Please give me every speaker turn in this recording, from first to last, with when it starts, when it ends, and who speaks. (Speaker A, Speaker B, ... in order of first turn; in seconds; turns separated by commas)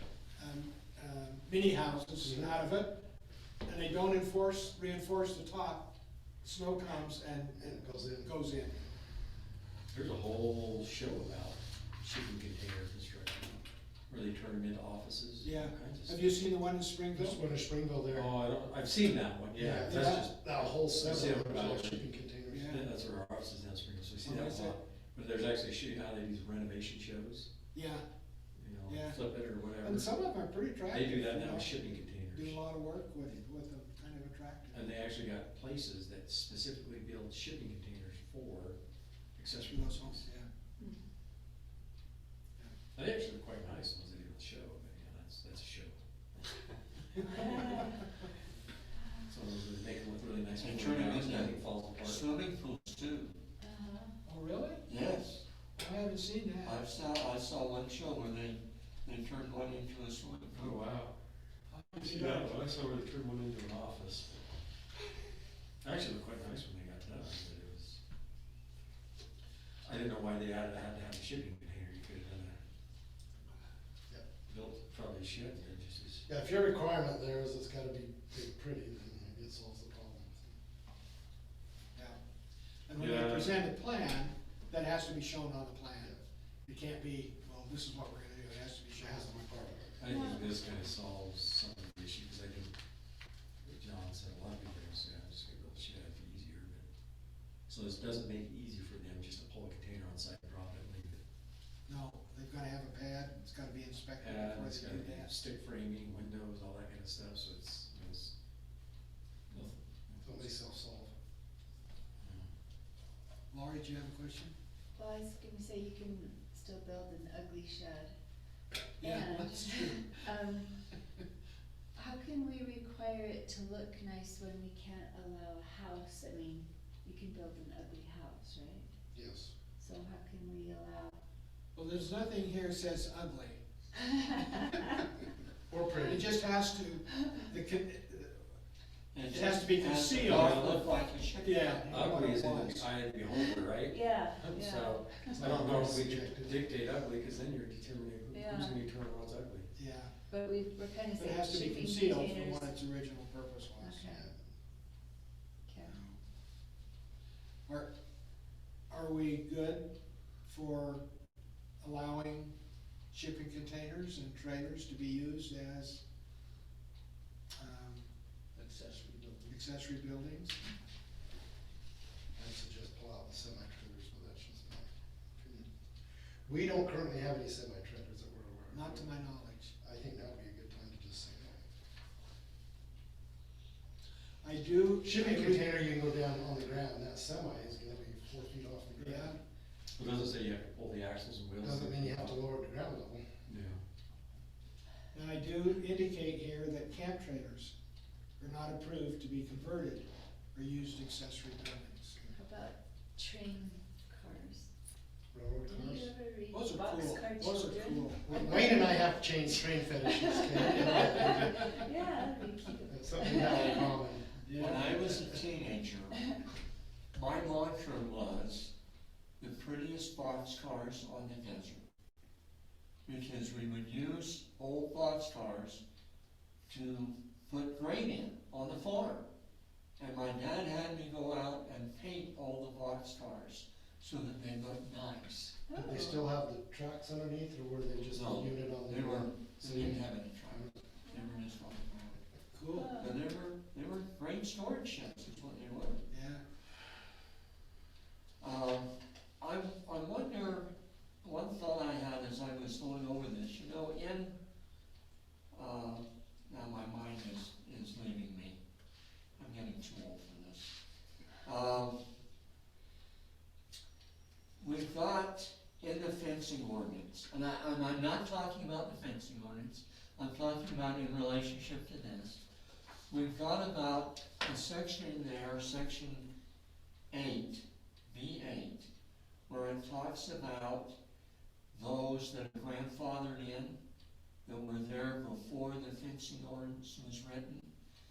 Speaker A: 0.4-3.0, Speaker B: 2.2-2.6, Speaker A: 3.6-5.9, Speaker A: 6.4-8.8, Speaker B: 7.5-8.3, Speaker C: 9.9-16.4, Speaker A: 15.4-17.4, Speaker B: 17.1-18.3, Speaker C: 18.1-22.1, Speaker B: 19.6-22.7, Speaker A: 19.8-20.3, Speaker A: 22.5-22.9, Speaker C: 22.7-27.5, Speaker A: 24.2-24.8, Speaker A: 27.7-28.0, Speaker C: 28.6-30.1, Speaker A: 28.9-29.2, Speaker A: 29.8-31.8, Speaker C: 30.9-32.6, Speaker A: 32.3-34.8, Speaker C: 34.7-38.8, Speaker C: 39.4-40.2, Speaker A: 39.6-40.5, Speaker C: 43.0-48.0, Speaker C: 49.3-52.2, Speaker D: 50.6-53.4, Speaker E: 53.6-54.1, Speaker A: 54.2-54.8, Speaker D: 54.9-55.5, Speaker A: 55.8-56.8, Speaker D: 56.6-60.8, Speaker C: 60.6-61.1, Speaker C: 61.7-64.5, Speaker A: 62.0-62.7, Speaker C: 65.8-68.0, Speaker C: 69.8-72.6, Speaker C: 74.5-76.2, Speaker B: 76.3-80.5, Speaker A: 82.9-89.7, Speaker C: 83.0-83.6, Speaker B: 89.0-90.1, Speaker C: 90.0-92.7, Speaker E: 90.1-90.4, Speaker C: 93.6-96.9, Speaker C: 97.7-101.2, Speaker A: 101.9-105.3, Speaker C: 104.2-108.3, Speaker C: 109.5-110.5, Speaker B: 110.2-111.1, Speaker C: 112.2-112.5, Speaker A: 113.5-114.5, Speaker E: 115.0-118.1, Speaker A: 119.0-120.2, Speaker E: 119.0-120.7, Speaker E: 122.0-128.9, Speaker B: 129.1-129.5, Speaker E: 129.8-131.2, Speaker A: 131.8-133.6, Speaker E: 134.2-134.8, Speaker B: 135.7-136.3, Speaker A: 136.0-138.4, Speaker D: 139.1-141.8, Speaker A: 139.3-140.7, Speaker C: 140.2-140.9, Speaker A: 141.4-142.9, Speaker C: 141.9-149.7, Speaker E: 143.3-145.4, Speaker A: 145.3-146.4, Speaker B: 145.3-146.5, Speaker E: 148.3-148.8, Speaker A: 149.8-150.1, Speaker E: 150.3-152.7, Speaker A: 151.2-154.2, Speaker E: 153.8-154.2, Speaker B: 154.1-154.4, Speaker E: 155.7-156.0, Speaker A: 155.8-156.2, Speaker A: 158.9-159.9, Speaker A: 160.4-161.0, Speaker A: 161.8-162.5, Speaker A: 163.1-166.0, Speaker A: 167.6-168.1, Speaker A: 168.9-170.6, Speaker B: 172.4-175.7, Speaker B: 176.5-179.1, Speaker A: 178.7-179.7, Speaker B: 179.8-181.6, Speaker A: 184.4-185.8, Speaker B: 185.0-189.4, Speaker A: 189.0-189.4, Speaker C: 190.0-192.4, Speaker B: 191.6-193.2, Speaker C: 193.5-193.8, Speaker A: 195.1-197.7, Speaker A: 198.4-202.2, Speaker E: 202.3-204.7, Speaker B: 205.3-206.1, Speaker E: 205.7-209.2, Speaker A: 206.5-208.8, Speaker B: 208.2-211.8, Speaker E: 210.0-213.9, Speaker A: 210.6-211.6, Speaker B: 212.9-215.2, Speaker D: 213.4-213.9, Speaker A: 214.4-215.2, Speaker D: 214.5-216.3, Speaker D: 217.1-218.7, Speaker D: 219.4-221.8, Speaker D: 223.1-225.8, Speaker D: 226.7-229.3, Speaker D: 230.0-235.7, Speaker E: 235.7-236.2, Speaker B: 235.7-240.7, Speaker C: 238.1-238.6, Speaker D: 238.8-242.2, Speaker A: 242.5-243.0, Speaker E: 242.8-243.1, Speaker D: 242.8-246.0, Speaker A: 246.1-246.4, Speaker D: 248.4-250.7, Speaker D: 251.2-254.3, Speaker D: 255.5-258.6, Speaker D: 259.4-260.8, Speaker D: 261.4-262.0, Speaker D: 264.6-272.4, Speaker D: 273.1-276.3, Speaker D: 277.1-278.9, Speaker D: 279.5-281.0, Speaker D: 281.7-283.8, Speaker D: 284.4-287.7